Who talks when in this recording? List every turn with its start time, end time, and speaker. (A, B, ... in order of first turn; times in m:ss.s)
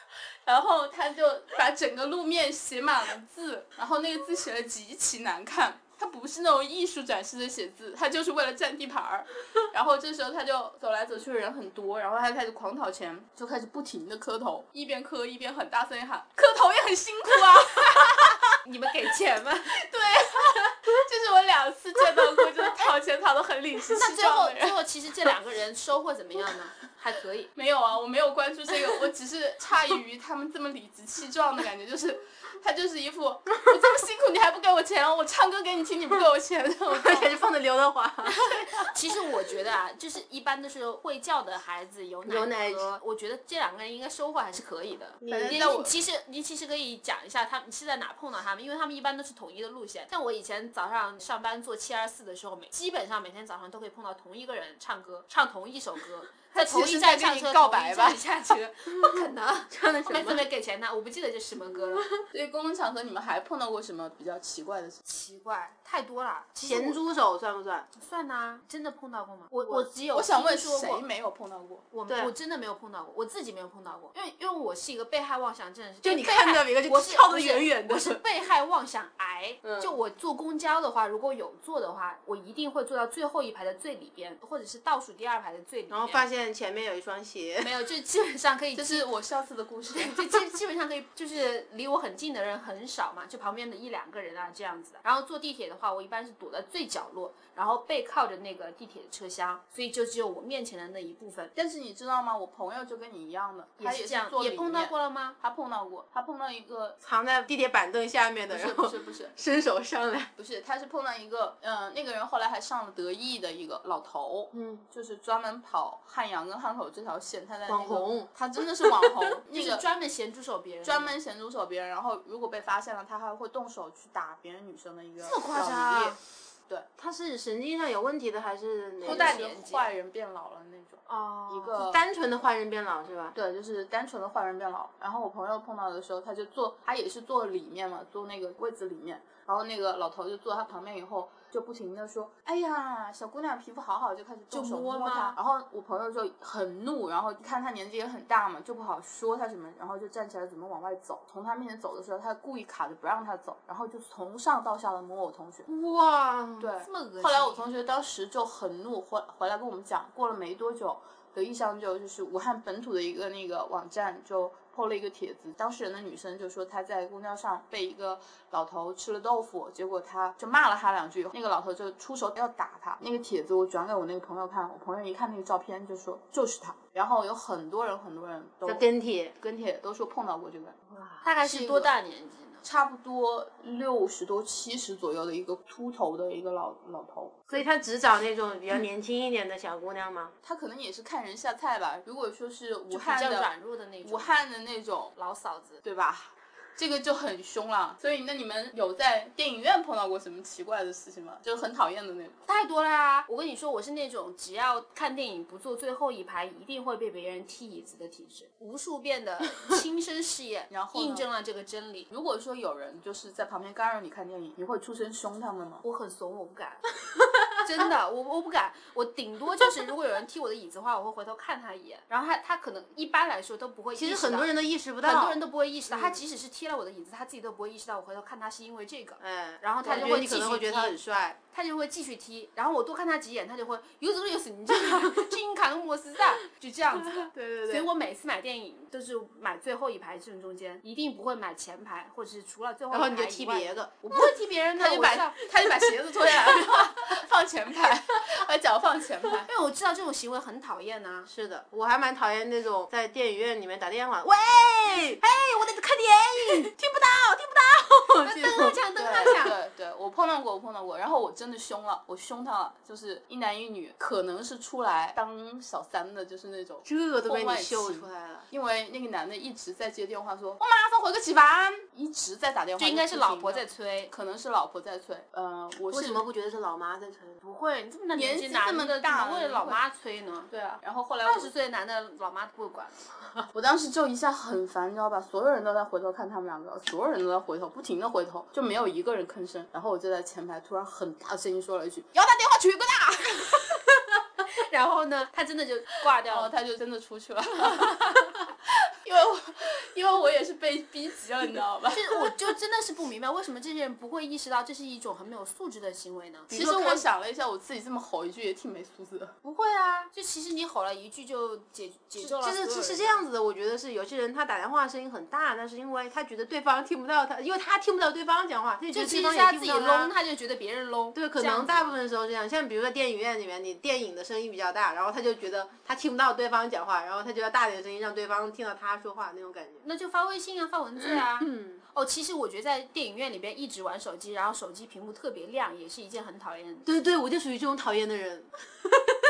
0:00.4-0:18.4 A
0:18.6-0:19.7 B
0:19.9-0:24.8 A
0:24.0-0:27.5 B
0:27.5-0:37.3 A
0:36.9-0:38.4 C
0:38.4-1:02.1 B
0:42.2-0:42.9 C
0:45.2-0:45.7 C
0:45.3-0:45.9 A
0:56.5-0:58.2 A
0:59.7-1:00.4 C
1:02.3-1:05.0 A
1:05.0-1:07.0 B
1:06.6-1:07.9 C
1:07.9-1:11.0 B
1:10.1-1:11.8 A
1:11.9-1:26.2 B
1:12.1-1:12.3 C
1:16.0-1:18.2 C
1:19.6-1:19.9 A
1:25.9-1:27.7 C
1:27.6-1:29.0 B
1:28.7-1:30.4 A
1:29.9-1:41.5 B
1:41.5-1:47.0 A
1:43.8-1:45.4 B
1:47.0-1:50.3 C
1:48.5-1:49.3 A
1:50.4-1:59.8 A
1:54.5-1:54.8 C
1:57.7-1:58.3 C
1:58.8-1:59.2 C
1:59.5-2:01.2 B
2:00.8-2:06.9 A
2:05.2-2:06.2 B
2:07.0-2:09.4 C
2:09.0-2:12.0 A
2:09.0-2:09.9 B
2:11.1-2:11.8 B
2:11.7-2:13.3 C
2:13.3-2:35.7 A
2:24.5-2:25.3 C
2:24.8-2:25.1 B
2:35.7-2:36.7 C
2:36.6-2:58.9 A
2:36.8-2:37.6 B
2:58.6-2:59.3 C
2:59.4-3:00.8 A
3:00.9-3:01.2 C
3:01.2-3:02.6 B
3:01.4-3:01.9 A
3:02.6-3:07.3 A
3:07.5-3:10.3 C
3:10.4-3:13.5 A
3:12.9-3:14.3 B
3:14.0-3:15.1 A
3:15.2-3:15.8 B
3:15.8-3:22.4 A
3:22.4-3:32.1 B
3:30.7-3:31.3 A
3:32.1-3:35.8 A
3:35.8-3:36.8 B
3:37.6-3:51.0 B
3:44.0-3:45.4 C
3:45.9-3:46.2 C
3:49.2-3:51.4 C
3:49.8-3:50.2 A
3:51.5-4:05.4 B
3:57.3-3:57.9 A
4:02.9-4:04.0 C
4:04.8-4:09.5 A
4:09.4-4:11.3 B
4:11.3-4:19.5 C
4:18.2-4:19.5 B
4:19.0-4:36.2 A
4:26.8-4:28.5 C
4:32.8-4:34.1 B
4:35.9-4:37.4 C
4:37.4-4:40.5 B
4:38.1-4:39.8 A
4:40.5-4:41.5 A
4:41.2-4:43.1 B
4:43.5-4:52.1 A
4:52.1-4:53.8 B
4:54.4-4:56.5 B
4:56.3-4:58.1 A
4:59.0-5:02.4 A
5:01.9-5:07.0 B
5:06.5-5:06.9 C
5:06.5-5:09.3 A
5:09.4-5:13.2 B
5:12.2-5:20.1 C
5:18.9-5:22.0 B
5:21.1-5:29.8 C
5:29.8-5:36.9 B
5:31.0-5:31.8 C
5:36.8-5:39.1 C